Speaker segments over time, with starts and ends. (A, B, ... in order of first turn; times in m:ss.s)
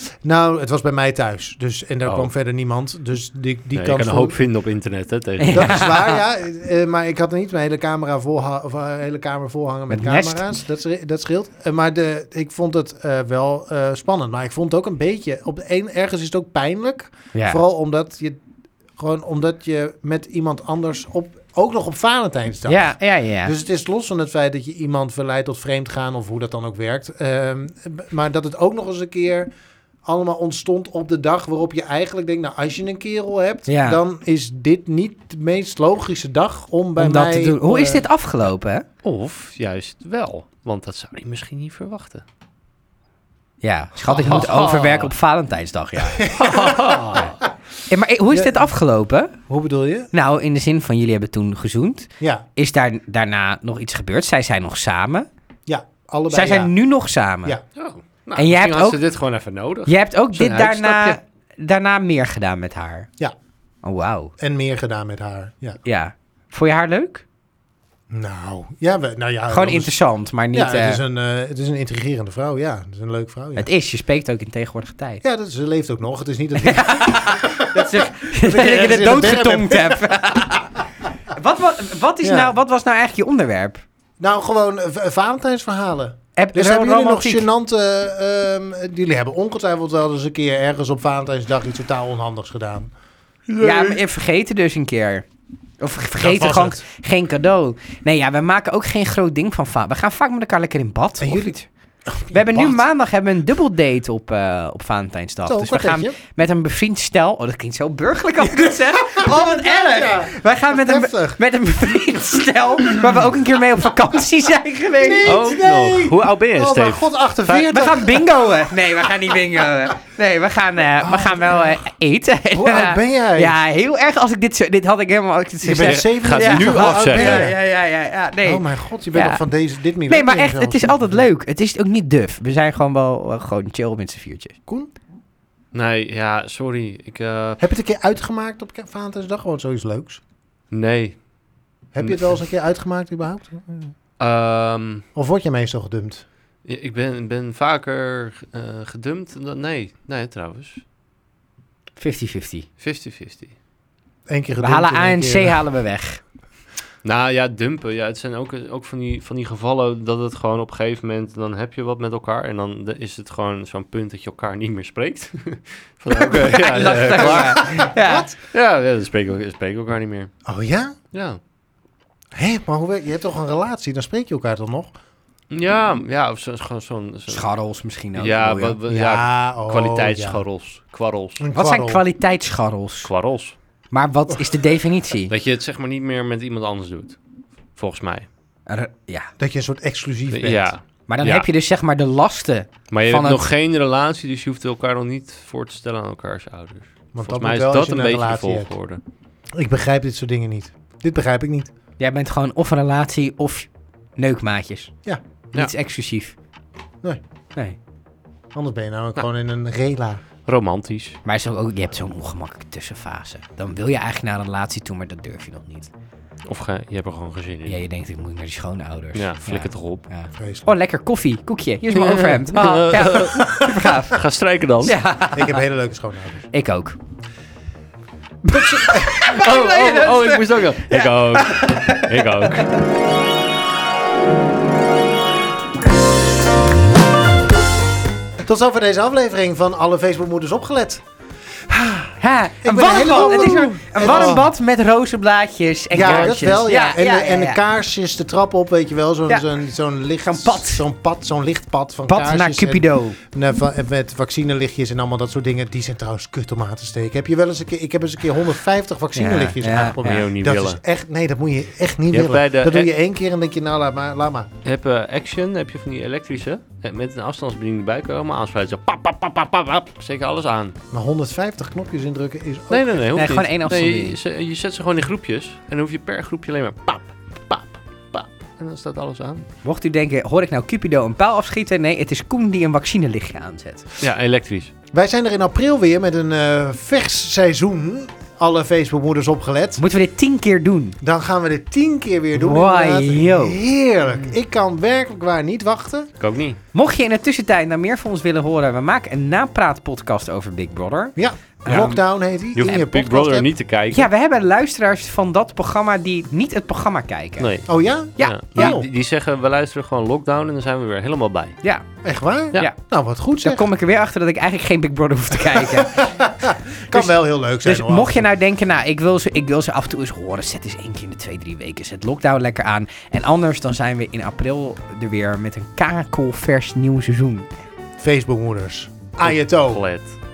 0:00.2-0:04.4 A
0:02.0-0:02.3 B
0:03.7-0:05.9 B
0:05.4-0:06.2 C
0:05.5-0:18.4 A
0:09.9-0:10.4 C
0:17.3-0:17.6 C
0:19.0-0:29.5 A
0:22.7-0:23.5 C
0:30.0-0:38.1 A
0:33.7-0:34.0 C
0:37.0-0:38.8 C
0:39.0-0:42.2 B
0:43.6-0:46.3 C
0:44.1-0:44.5 A
0:44.1-0:45.1 B
0:46.0-0:47.3 A
0:46.4-0:47.4 B
0:47.9-0:49.4 C
0:48.3-0:48.7 A
0:49.5-0:50.1 A
0:50.1-0:55.3 C
0:52.2-0:52.4 A
0:55.6-0:56.7 A
0:56.3-0:57.6 C
0:57.8-1:01.2 B
0:58.4-0:59.0 C
0:59.8-1:03.1 C
1:03.8-1:04.3 C
1:04.4-1:05.8 A
1:05.8-1:07.2 C
1:08.1-1:09.9 A
1:09.5-1:11.0 C
1:10.5-1:13.7 A
1:13.6-1:15.2 C
1:15.2-1:20.6 A
1:16.6-1:23.8 C
1:22.2-1:22.5 A
1:24.2-1:32.9 A
1:26.4-1:27.5 C
1:33.6-1:34.0 B
1:33.6-1:35.2 C
1:35.8-1:41.7 C
1:36.2-1:36.8 A
1:41.2-1:41.5 A
1:42.1-1:42.8 A
1:42.3-1:55.4 C
1:45.4-1:46.2 A
1:48.5-1:51.4 A
1:55.0-1:58.2 A
1:55.2-1:57.7 B
1:57.7-2:09.4 C
2:01.0-2:01.8 A
2:02.5-2:03.6 A
2:05.6-2:07.6 A
2:05.8-2:07.5 B
2:08.4-2:11.3 A
2:10.1-2:14.6 C
2:15.7-2:17.6 B
2:17.6-2:20.2 A
2:20.7-2:21.2 B
2:21.9-2:23.9 A
2:22.0-2:22.3 B
2:24.2-2:25.0 B
2:25.1-2:26.2 A
2:26.6-2:30.8 B
2:32.0-2:32.6 C
2:32.8-2:33.5 B
2:34.3-2:35.6 A
2:34.6-2:36.2 C
2:37.0-2:47.9 B
2:46.2-2:48.3 C
2:46.3-2:48.3 A
2:48.5-2:50.3 B
2:50.4-2:50.9 A
2:51.1-2:51.4 B
2:52.3-2:54.9 A
2:55.5-2:57.5 B
2:57.3-2:58.8 C
2:58.1-3:01.4 B
2:58.9-3:00.4 A
3:01.4-3:02.0 A
3:01.5-3:03.1 C
3:03.0-3:03.5 B
3:03.9-3:05.3 C
3:05.3-3:07.2 B
3:07.8-3:08.3 B
3:08.7-3:09.3 C
3:09.4-3:10.7 A
3:10.3-3:11.4 B
3:11.1-3:13.5 C
3:12.9-3:19.0 B
3:17.1-3:18.7 A
3:19.5-3:21.7 A
3:22.0-3:24.9 C
3:25.5-3:26.3 C
3:28.5-3:30.2 A
3:30.5-3:31.2 B
3:31.2-3:35.9 C
3:36.4-3:37.8 B
3:37.7-3:44.2 C
3:39.1-3:40.0 B
3:40.4-3:40.6 A
3:41.9-3:45.0 B
3:44.8-3:45.6 C
3:45.3-3:46.4 A
3:46.5-3:47.0 C
3:48.4-3:52.8 C
3:48.5-3:49.4 A
3:49.3-3:52.7 B
3:58.4-4:01.0 A
4:01.7-4:04.5 A
4:02.2-4:07.6 C
4:05.9-4:24.5 A
4:06.0-4:06.4 B
4:10.2-4:10.8 C
4:12.1-4:13.2 C
4:19.1-4:20.2 C
4:20.0-4:20.8 B
4:22.1-4:22.9 B
4:24.6-4:30.8 B
4:30.9-4:32.9 A
4:32.7-4:39.4 B
4:33.1-4:34.2 C
4:39.6-4:43.8 C
4:44.0-4:44.7 B
4:44.9-4:49.8 A
4:49.8-4:51.0 C
4:51.0-4:56.1 A
4:52.3-4:53.6 C
4:56.2-4:56.6 B
4:56.7-5:02.0 C
5:01.2-5:03.5 A
5:02.6-5:04.1 B
5:03.9-5:07.5 C
5:07.4-5:07.7 B
5:07.7-5:08.9 A
5:08.2-5:08.8 C
5:08.2-5:11.6 B
5:12.0-5:13.7 A
5:13.4-5:16.1 C
5:15.3-5:18.3 A
5:16.9-5:27.5 C
5:28.0-5:29.8 A
5:29.2-5:30.2 B